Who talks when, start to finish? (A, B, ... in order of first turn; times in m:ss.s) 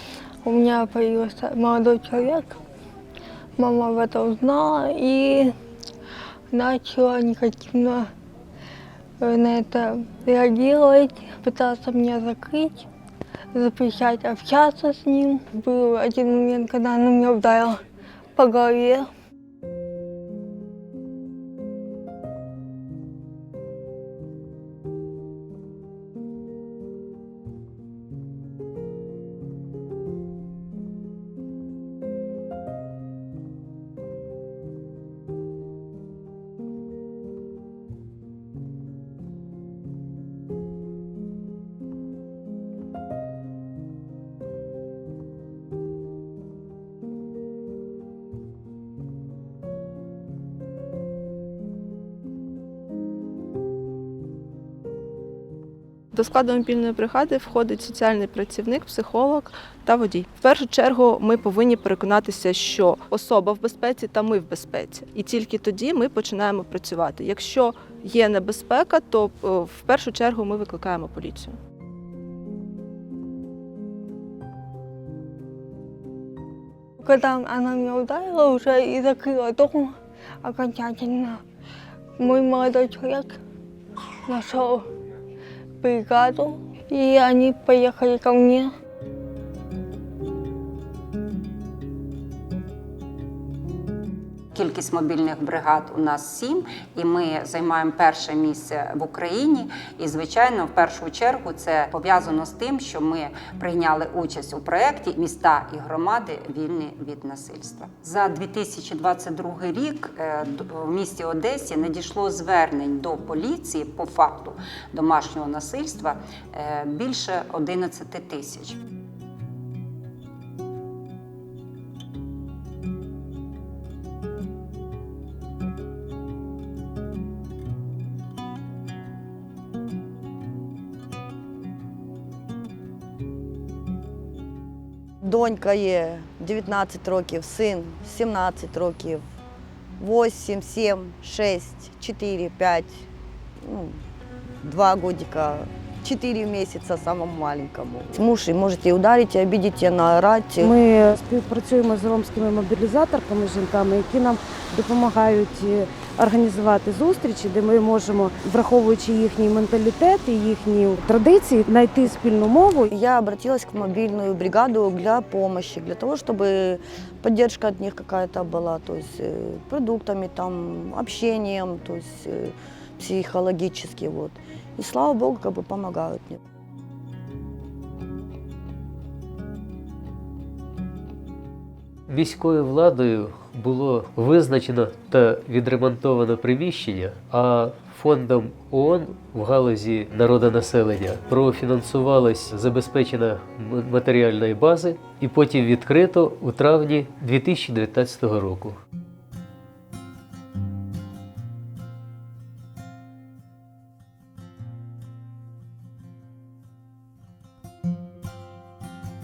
0:00.4-0:02.6 A
0:03.6-0:05.5 A
0:06.5-0:08.1 A
0:09.2-0:12.9 A
0:13.5-0:17.8 A
0:18.4-0:19.1 A
0:56.1-1:11.6 B
1:17.0-1:21.4 A
1:22.2-1:23.4 A
1:24.3-1:24.9 A
1:25.8-1:28.7 A
1:34.5-1:58.8 C
2:15.2-2:19.2 D
2:20.0-2:23.1 D
2:23.6-2:24.0 D
2:24.6-2:30.7 D
2:30.6-2:42.9 E
2:42.9-2:56.4 D
3:02.1-3:18.8 F